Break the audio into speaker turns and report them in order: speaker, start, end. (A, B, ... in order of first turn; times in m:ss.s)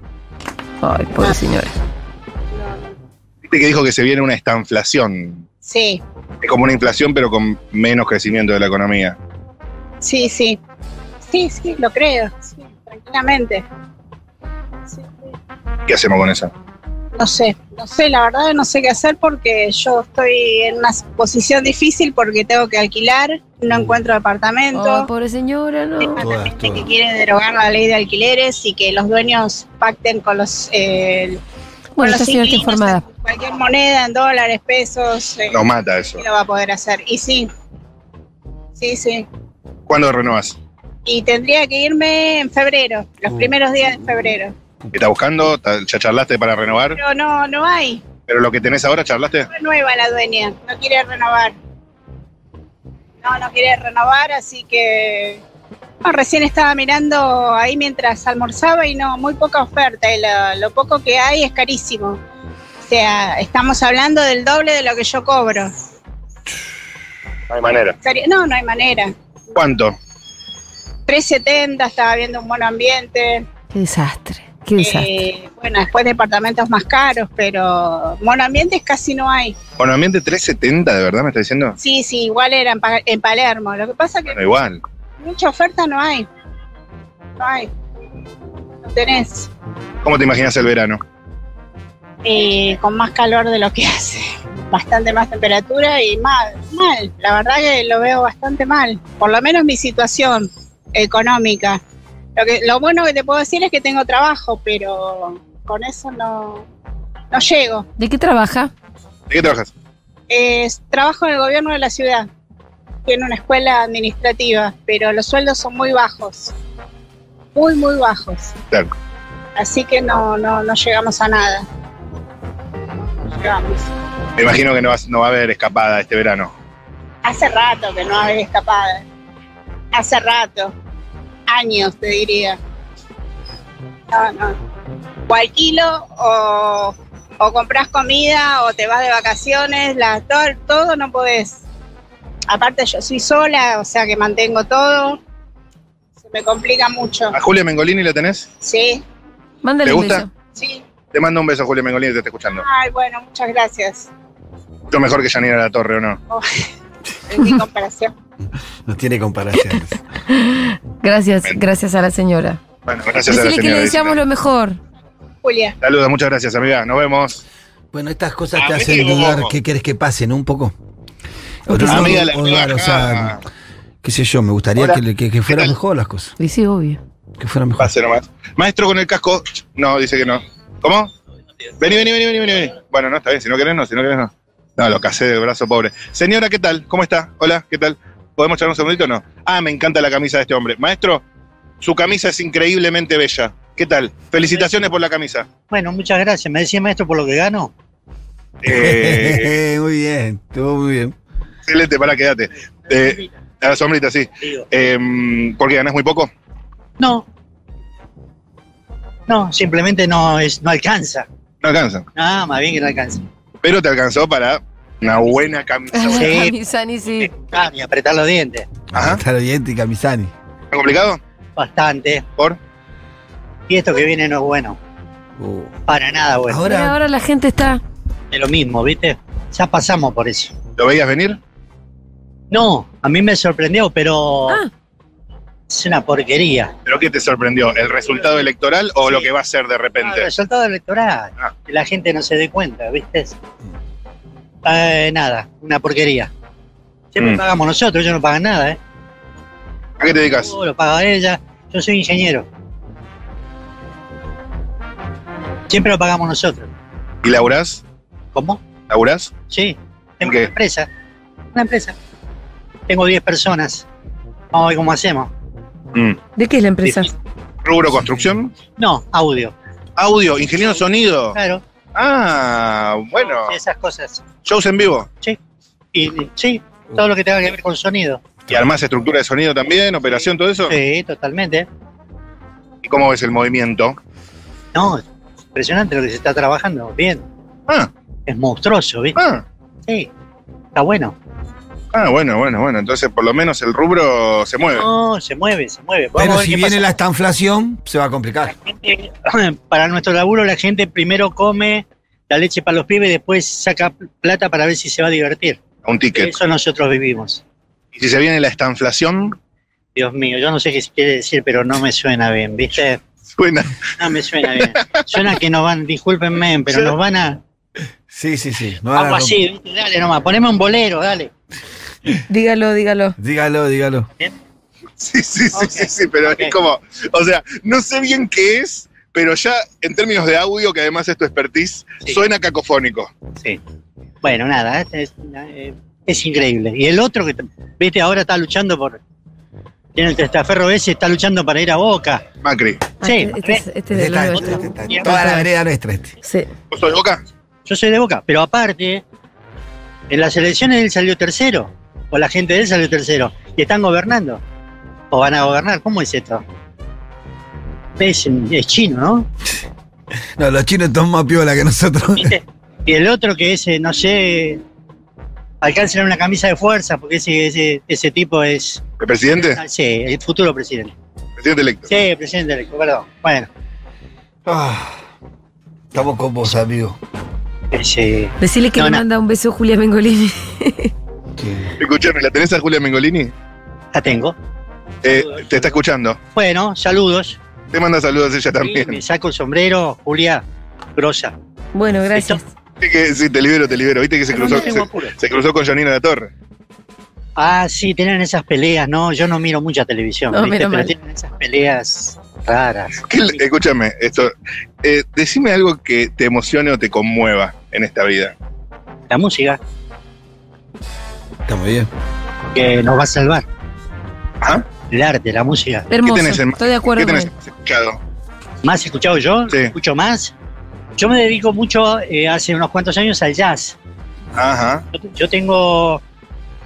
0:00.8-0:01.7 A
0:02.5-0:02.9 B
0:03.5-0:05.4 C
0:05.6-0:06.0 B
0:06.4-0:09.2 C
0:10.0-0:10.6 B
0:11.2-0:13.6 B
0:14.9-0:15.2 B
0:15.9-0:16.5 C
0:17.1-0:25.1 B
0:24.7-0:26.2 A
0:26.0-0:31.4 B
0:26.2-0:26.8 D
0:32.0-0:33.0 A
0:32.0-0:35.6 B
0:35.5-0:36.2 C
0:36.2-0:37.5 B
0:38.8-0:39.2 B
0:39.9-0:40.6 C
0:41.0-0:44.5 B
0:44.9-0:47.0 C
0:47.0-0:48.0 B
0:48.3-0:49.5 C
0:49.5-0:51.5 B
0:53.2-0:55.4 B
0:56.0-1:02.2 B
1:02.8-1:05.7 B
1:07.5-1:08.0 C
1:08.0-1:09.1 B
1:09.5-1:10.0 C
1:11.1-1:13.4 B
1:13.7-1:15.1 A
1:14.8-1:19.5 B
1:19.8-1:21.8 C
1:21.8-1:24.4 B
1:24.3-1:24.8 C
1:25.2-1:26.3 B
1:27.4-1:27.7 B
1:28.8-1:29.5 B
1:30.0-1:31.0 C
1:32.2-1:41.8 B
1:42.4-1:46.6 B
1:47.3-1:47.8 B
1:48.0-1:48.7 A
1:49.3-1:49.7 C
1:50.3-1:52.3 B
1:53.0-1:56.5 B
1:57.5-1:58.5 B
1:59.6-2:01.7 B
2:03.2-2:03.9 B
2:04.4-2:06.5 C
2:07.2-2:09.0 B
2:09.9-2:10.7 B
2:11.5-2:12.6 B
2:14.1-2:14.6 B
2:15.3-2:21.6 B
2:22.5-2:25.2 B
2:26.2-2:27.4 B
2:27.3-2:28.5 C
2:28.6-2:29.0 B
2:29.6-2:30.3 A
2:29.8-2:30.2 C
2:30.6-2:30.8 B
2:31.1-2:32.6 C
2:32.6-2:34.1 B
2:34.9-2:36.2 C
2:36.3-2:36.6 B
2:37.3-2:38.1 B
2:38.8-2:40.0 D
2:40.3-2:42.6 A
2:42.9-2:44.2 C
2:43.3-2:44.8 A
2:45.4-2:45.7 B
2:45.8-2:47.4 C
2:47.9-2:50.7 D
2:48.6-2:49.5 C
2:51.7-2:53.4 D
2:51.8-2:53.4 C
2:54.0-2:56.3 D
2:54.8-2:55.7 C
2:56.4-2:57.0 A
2:57.4-2:57.9 D
2:57.8-3:01.1 C
3:01.8-3:11.2 C
3:11.8-3:15.5 C
3:15.7-3:17.7 E
3:18.6-3:19.6 C
3:18.6-3:21.1 D
3:21.7-3:26.3 C
3:27.0-3:27.2 E
3:29.3-3:31.2 E
3:31.6-3:32.0 C
3:32.1-3:33.2 E
3:33.6-3:36.4 C
3:35.1-3:35.4 E
3:35.9-3:37.3 A
3:36.2-3:36.5 E
3:37.2-3:38.7 E
3:38.9-3:40.3 D
3:38.9-3:39.2 C
3:40.7-3:41.2 C
3:41.6-3:42.3 E
3:43.7-3:44.8 E
3:45.4-3:45.8 D
3:45.9-3:46.6 E
3:46.5-3:47.0 D
3:46.6-3:47.8 A
3:48.3-3:50.6 E
3:50.8-3:51.4 C
3:52.5-3:54.6 E
3:55.7-3:56.7 E
3:56.8-4:00.3 C
3:59.0-3:59.3 E
4:00.0-4:03.4 E
4:04.6-4:06.3 E
4:07.1-4:08.8 E
4:10.0-4:10.5 C
4:10.1-4:12.5 E
4:15.7-4:16.7 E
4:17.2-4:17.8 C
4:18.3-4:18.6 E
4:18.9-4:19.3 C
4:19.5-4:20.9 E
4:20.2-4:20.5 C
4:21.5-4:21.9 E
4:22.9-4:23.8 E
4:24.5-4:25.3 E
4:26.4-4:27.1 A
4:27.6-4:28.6 C
4:28.7-4:29.5 E
4:30.0-4:31.4 C
4:31.3-4:31.6 E
4:31.9-4:33.6 C
4:33.1-4:34.2 E
4:34.4-4:35.1 C
4:35.9-4:38.2 E
4:38.5-4:40.8 C
4:40.1-4:41.7 E
4:42.8-4:44.0 C
4:44.7-4:47.2 E
4:48.3-4:49.2 E
4:49.2-4:49.4 C
4:50.7-4:51.1 E
4:51.9-4:54.8 C
4:54.7-4:56.9 E
4:56.1-4:58.5 D
4:58.5-5:05.6 E
5:05.8-5:06.3 C
5:06.1-5:07.4 E
5:07.9-5:09.4 C
5:10.0-5:13.0 E
5:13.4-5:13.8 C
5:14.0-5:17.4 E
5:14.6-5:15.0 C
5:18.1-5:19.4 D
5:18.9-5:21.3 E
5:22.3-5:23.2 A
5:23.2-5:24.1 D
5:25.0-5:33.1 C
5:25.5-5:26.5 E
5:34.2-5:39.0 E
5:39.9-5:42.2 E
5:42.4-5:42.9 C
5:43.0-5:45.4 A
5:43.0-5:43.7 E
5:43.9-5:46.1 D
5:44.9-5:45.3 E
5:46.2-5:46.5 A
5:46.7-5:47.2 C
5:47.6-5:49.0 E
5:50.1-5:54.4 E
5:55.1-5:56.4 E
5:58.0-5:59.3 E
6:00.4-6:02.3 D
6:02.2-6:04.6 E
6:05.6-6:08.8 E
6:09.0-6:09.6 C
6:09.3-6:10.9 E
6:11.4-6:11.9 C
6:11.9-6:13.5 E
6:14.4-6:15.0 D
6:15.9-6:17.0 D
6:17.7-6:19.0 E
6:18.4-6:20.9 A
6:21.4-6:21.7 D
6:21.8-6:23.3 C
6:23.9-6:24.3 E
6:25.0-6:26.2 C
6:25.0-6:25.7 E
6:26.3-6:27.4 E
6:27.7-6:29.0 C
6:28.6-6:30.4 E
6:31.0-6:31.3 E
6:31.7-6:32.5 A
6:32.1-6:32.4 E
6:32.8-6:36.3 C
6:34.3-6:35.1 E
6:37.4-6:43.2 E
6:40.3-6:40.9 A
6:43.1-6:48.3 C
6:49.1-6:49.6 E
6:51.4-6:51.9 D
6:52.5-6:53.4 E
6:54.9-6:55.9 E
6:55.9-6:57.3 A
6:56.0-6:58.0 C
6:58.6-7:00.3 E
7:01.0-7:03.8 E
7:04.4-7:04.8 C
7:04.9-7:06.0 E